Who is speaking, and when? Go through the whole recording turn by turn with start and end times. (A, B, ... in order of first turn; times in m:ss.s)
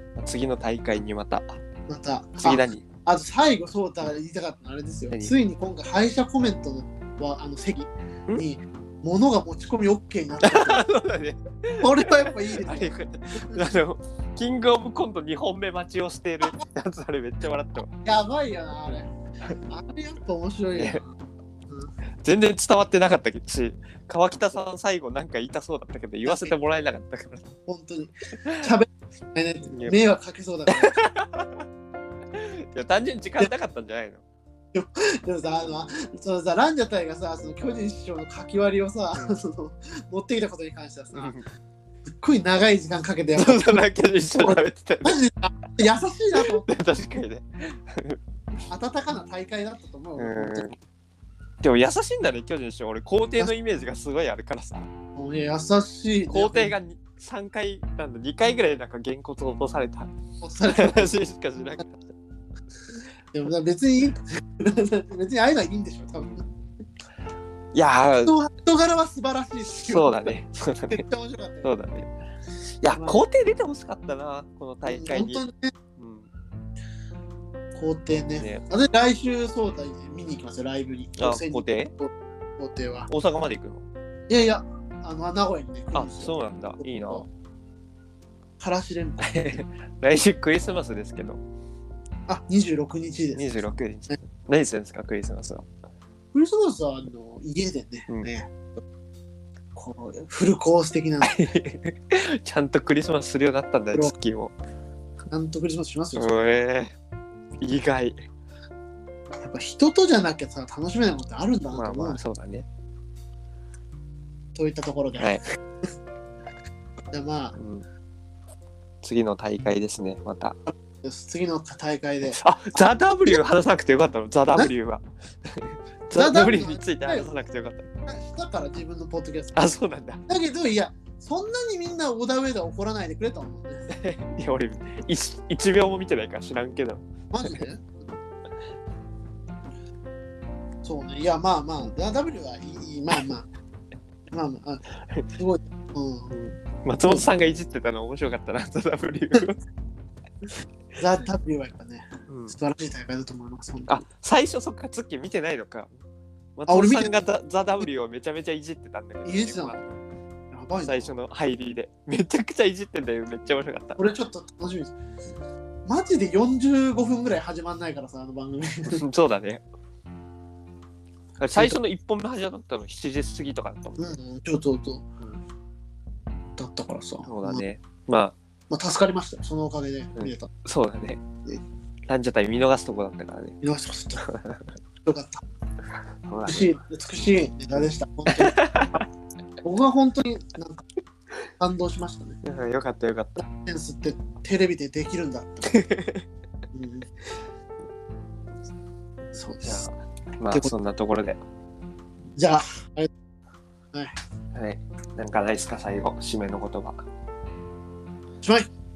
0:00.2-0:01.6 A
0:01.9-0:10.8 B
0:02.4-0:02.8 A
0:10.4-0:17.9 A
0:11.8-0:12.9 B
0:13.4-0:13.7 B
0:18.0-0:19.1 B
0:19.6-0:21.1 B
0:20.7-0:21.0 A
0:22.2-0:27.5 A
0:26.2-0:26.5 B
0:27.7-0:31.0 B
0:29.6-0:29.9 A
0:30.7-0:31.6 A
0:32.3-0:34.2 A
0:34.7-0:41.3 B
0:41.1-0:41.4 A
0:42.2-0:43.8 B
0:43.3-0:45.2 A
0:44.3-0:46.7 B
0:46.4-0:48.2 A
0:48.6-0:50.7 B
0:50.2-0:50.8 A
0:51.6-0:54.9 A
0:55.2-0:56.7 B
0:56.3-1:00.1 A
1:00.4-1:01.1 B
1:00.6-1:01.9 A
1:03.3-1:06.4 B
1:07.7-1:08.4 A
1:08.2-1:11.7 B
1:09.7-1:11.0 A
1:11.6-1:12.1 A
1:12.8-1:15.4 A
1:12.9-1:13.2 B
1:14.8-1:15.7 B
1:16.0-1:16.3 A
1:17.7-1:23.1 B
1:18.4-1:18.6 A
1:21.2-1:21.9 A
1:23.1-1:23.8 A
1:24.3-1:27.3 B
1:25.9-1:27.2 A
1:28.6-1:29.6 B
1:29.2-1:31.4 A
1:32.3-1:33.6 B
1:33.3-1:35.7 A
1:36.3-1:38.5 B
1:39.7-1:41.4 B
1:41.2-1:44.5 A
1:45.3-1:46.6 B
1:46.2-1:46.9 A
1:47.6-1:48.2 A
1:49.4-1:52.2 B
1:51.7-1:52.7 A
1:54.5-1:55.4 B
1:57.1-1:57.6 B
1:57.6-1:57.8 A
1:59.0-2:00.6 A
2:00.7-2:02.4 B
2:02.2-2:07.9 A
2:06.1-2:07.3 B
2:08.1-2:09.6 B
2:09.6-2:10.2 A
2:10.3-2:13.8 B
2:13.9-2:17.6 A
2:17.3-2:17.9 B
2:20.8-2:23.5 B
2:24.3-2:26.3 B
2:26.3-2:29.6 A
2:31.0-2:34.0 B
2:32.3-2:32.5 A
2:33.9-2:35.9 A
2:36.6-2:40.0 A
2:36.7-2:37.3 B
2:39.2-2:39.8 B
2:40.5-2:41.1 B
2:40.8-2:44.0 A
2:44.0-2:45.0 B
2:45.8-2:49.0 B
2:48.9-2:49.6 A
2:51.4-2:54.1 A
2:54.0-2:55.1 B
2:56.6-2:57.6 B
2:57.2-2:58.4 A
2:58.7-3:00.5 B
3:00.2-3:01.2 A
3:02.1-3:03.6 A
3:03.6-3:04.3 B
3:04.2-3:04.6 A
3:05.0-3:05.4 B
3:06.3-3:07.3 A
3:06.4-3:09.0 B
3:08.3-3:09.0 A
3:09.6-3:10.8 B
3:11.6-3:12.4 B
3:12.4-3:13.4 A
3:13.4-3:15.8 B
3:15.7-3:16.2 A
3:16.7-3:17.1 B
3:19.3-3:19.8 B
3:19.6-3:21.4 A
3:22.4-3:23.1 B
3:24.5-3:27.0 A
3:28.4-3:28.7 B